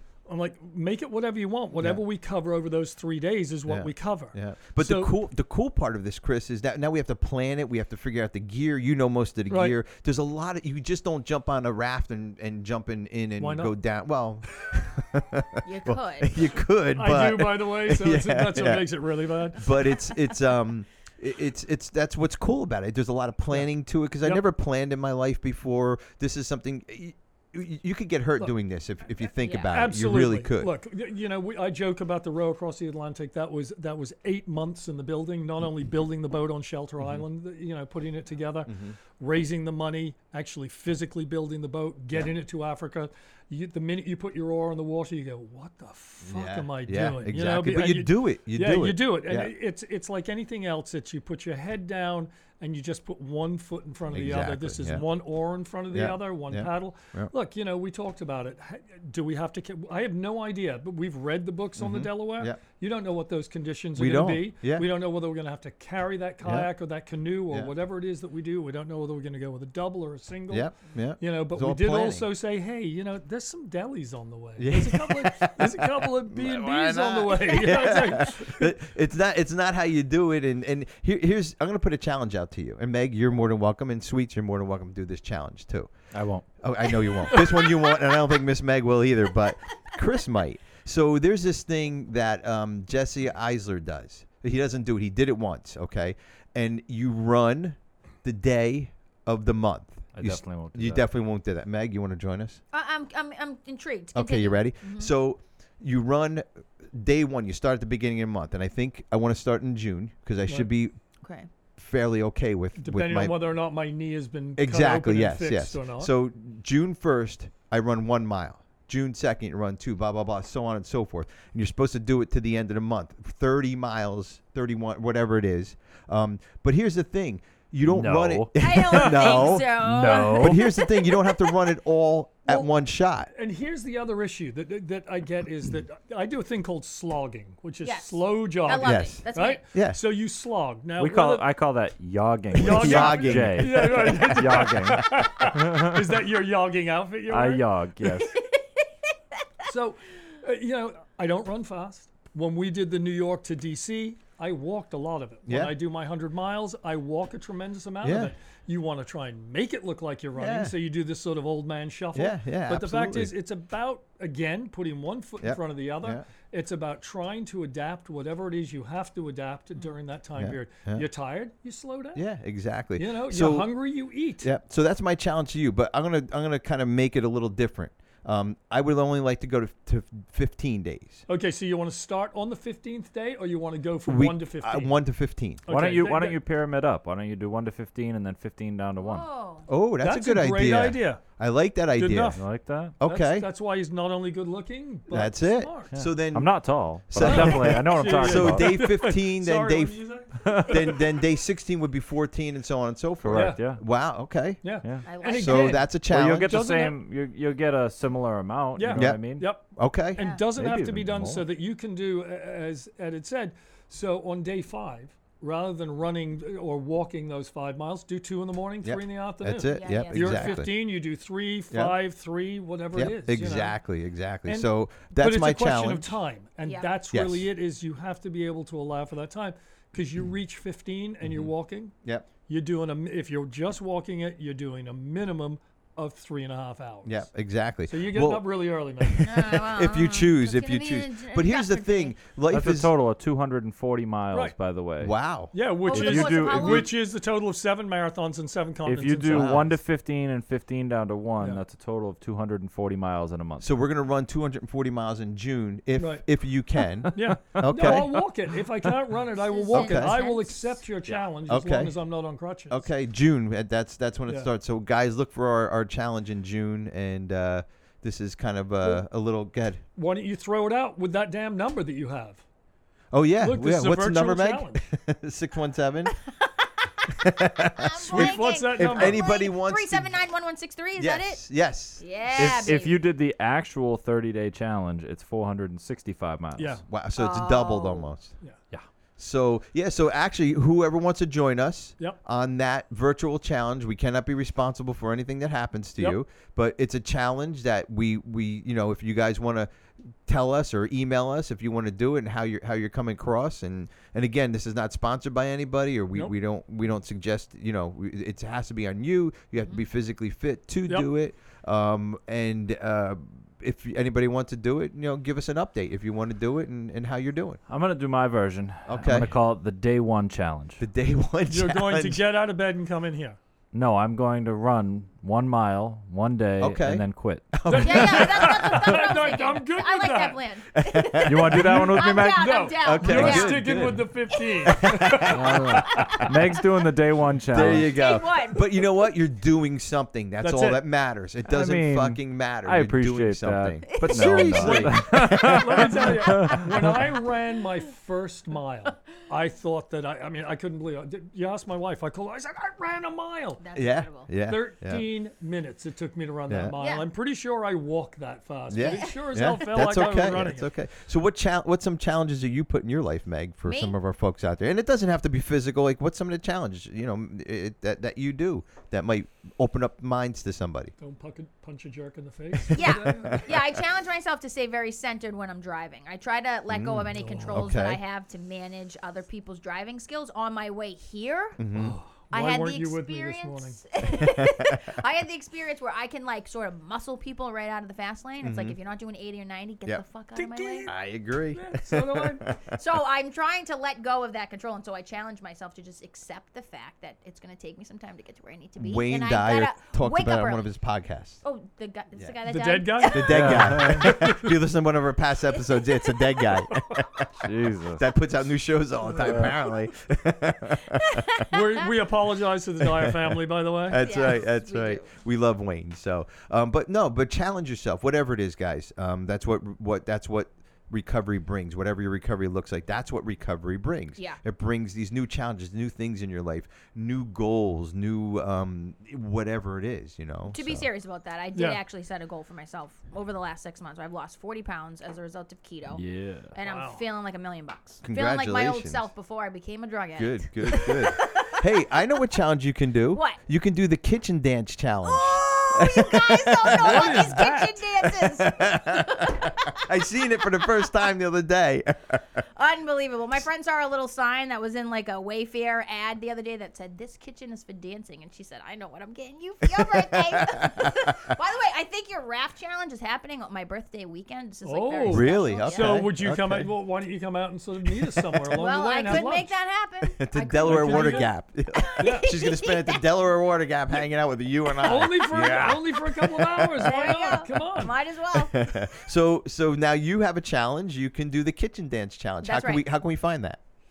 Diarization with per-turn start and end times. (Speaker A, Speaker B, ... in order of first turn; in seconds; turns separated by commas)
Speaker A: 0.3-5.1, Speaker B: 3.7-18.9, Speaker A: 9.5-9.8, Speaker A: 13.4-13.7, Speaker C: 15.6-16.4, Speaker A: 16.9-19.7, Speaker B: 19.5-30.7, Speaker C: 29.4-29.7, Speaker A: 29.7-78.7, Speaker B: 37.0-37.2, Speaker B: 38.7-39.0, Speaker B: 46.2-49.5, Speaker B: 54.1-55.0, Speaker B: 55.9-57.3, Speaker B: 61.8-62.6, Speaker B: 64.0-64.9, Speaker B: 66.4-66.7, Speaker B: 70.5-72.3, Speaker B: 74.6-85.9, Speaker D: 86.1-86.4, Speaker B: 86.6-102.6, Speaker D: 100.1-101.0, Speaker C: 102.7-105.1, Speaker B: 104.1-110.9, Speaker C: 111.2-111.5, Speaker B: 111.8-113.3, Speaker A: 112.8-116.1, Speaker B: 114.6-133.3, Speaker D: 127.8-128.5, Speaker C: 128.6-131.3, Speaker A: 128.9-129.3, Speaker D: 129.3-130.6, Speaker A: 133.3-141.5, Speaker C: 137.8-139.6, Speaker B: 138.8-140.0, Speaker D: 141.0-146.1, Speaker B: 142.5-145.2, Speaker A: 142.5-147.7, Speaker D: 147.3-148.3, Speaker C: 148.0-148.6, Speaker A: 149.6-172.2, Speaker B: 155.4-155.7, Speaker B: 158.0-158.3, Speaker B: 160.3-160.8, Speaker B: 162.1-163.3, Speaker B: 165.4-166.2, Speaker B: 170.3-171.0, Speaker B: 172.1-173.8, Speaker A: 173.0-174.5, Speaker B: 174.4-181.2, Speaker A: 181.3-185.0, Speaker B: 184.1-185.6, Speaker A: 185.7-186.4, Speaker D: 185.7-189.2, Speaker C: 189.0-189.7, Speaker B: 189.7-192.4, Speaker A: 190.0-191.2, Speaker A: 192.0-192.4, Speaker D: 192.3-192.9, Speaker B: 193.0-193.5, Speaker A: 193.0-195.9, Speaker B: 195.1-199.9, Speaker D: 195.9-198.7, Speaker A: 197.2-201.2, Speaker B: 200.7-204.6, Speaker D: 203.2-203.8, Speaker A: 203.3-203.6, Speaker A: 204.6-205.9, Speaker C: 205.0-205.7, Speaker B: 205.2-206.6, Speaker D: 205.9-209.5, Speaker A: 206.4-207.0, Speaker A: 208.8-223.8, Speaker B: 208.9-209.2, Speaker B: 209.7-210.2, Speaker C: 210.2-210.4, Speaker D: 210.5-211.4, Speaker B: 218.8-220.7, Speaker C: 219.7-220.7, Speaker B: 221.7-222.0, Speaker B: 222.9-226.2, Speaker A: 224.5-237.2, Speaker C: 226.6-226.9, Speaker B: 227.1-227.4, Speaker B: 231.2-231.5, Speaker B: 237.1-242.9, Speaker A: 237.9-239.3, Speaker C: 239.2-242.2, Speaker D: 242.5-245.1, Speaker B: 245.0-245.5, Speaker A: 245.5-249.6, Speaker C: 245.8-246.9, Speaker D: 245.9-246.9, Speaker D: 248.8-253.7, Speaker B: 249.2-249.8, Speaker B: 253.6-258.2, Speaker A: 256.0-256.2, Speaker A: 257.1-262.9, Speaker D: 257.8-258.0, Speaker C: 259.5-260.8, Speaker B: 259.7-260.2, Speaker B: 261.5-262.0, Speaker B: 262.7-269.8, Speaker A: 269.9-272.4, Speaker B: 273.1-276.1, Speaker A: 273.4-274.8, Speaker B: 277.1-280.2, Speaker C: 277.6-281.4, Speaker A: 278.0-279.2, Speaker B: 280.9-282.7, Speaker C: 282.0-283.0, Speaker D: 282.3-286.8, Speaker A: 286.6-286.8, Speaker B: 286.9-288.3, Speaker C: 287.1-288.1, Speaker B: 289.2-299.7, Speaker B: 300.2-317.6, Speaker D: 317.7-320.8, Speaker B: 318.9-319.3, Speaker B: 320.8-322.2, Speaker A: 321.5-323.4, Speaker D: 323.7-327.5, Speaker B: 326.6-328.7, Speaker A: 327.7-330.5, Speaker C: 327.7-333.7, Speaker B: 330.7-332.0, Speaker D: 331.2-332.5, Speaker A: 331.5-336.0, Speaker B: 332.8-334.0, Speaker D: 333.1-333.9, Speaker C: 334.3-334.7, Speaker B: 334.7-335.5, Speaker D: 335.3-337.9, Speaker C: 335.8-336.3, Speaker B: 337.5-345.9, Speaker C: 337.8-338.9, Speaker A: 340.4-340.8, Speaker D: 341.5-346.7, Speaker C: 343.9-344.6, Speaker A: 344.3-353.6, Speaker C: 346.3-346.6, Speaker C: 353.6-354.3, Speaker B: 353.7-355.1, Speaker A: 354.4-360.7, Speaker B: 356.5-356.8, Speaker C: 356.8-357.1, Speaker B: 358.7-370.9, Speaker C: 358.9-359.1, Speaker C: 359.6-359.9, Speaker C: 363.6-363.9, Speaker A: 371.0-373.4, Speaker C: 372.7-381.6, Speaker B: 372.7-373.6, Speaker B: 376.7-378.0, Speaker A: 377.1-377.7, Speaker B: 381.6-381.9, Speaker A: 381.7-383.8, Speaker C: 382.3-390.9, Speaker B: 388.4-388.8, Speaker A: 390.4-390.9, Speaker B: 390.9-392.8, Speaker A: 391.5-392.4, Speaker C: 392.7-400.7, Speaker B: 398.8-401.4, Speaker C: 401.4-403.4, Speaker A: 402.4-404.5, Speaker B: 403.1-411.5, Speaker D: 403.3-404.1, Speaker C: 405.5-406.2, Speaker D: 407.4-408.0, Speaker C: 411.1-411.8, Speaker A: 411.5-414.0, Speaker B: 413.9-430.9, Speaker C: 414.0-415.1, Speaker C: 430.5-436.0, Speaker A: 431.5-431.8, Speaker D: 435.9-436.5, Speaker C: 436.5-441.5, Speaker A: 436.6-437.0, Speaker B: 438.0-439.1, Speaker B: 440.1-447.4, Speaker C: 443.1-443.4, Speaker C: 445.0-449.8, Speaker A: 446.8-447.8, Speaker B: 448.0-452.2, Speaker C: 452.6-466.0, Speaker B: 459.8-460.9, Speaker A: 464.6-469.5, Speaker B: 465.0-466.7, Speaker C: 468.5-473.1, Speaker B: 470.1-477.3, Speaker A: 470.6-471.3, Speaker A: 472.0-472.3, Speaker C: 474.8-475.5, Speaker A: 474.8-477.9, Speaker C: 476.8-478.7, Speaker B: 478.3-483.6, Speaker C: 482.4-482.8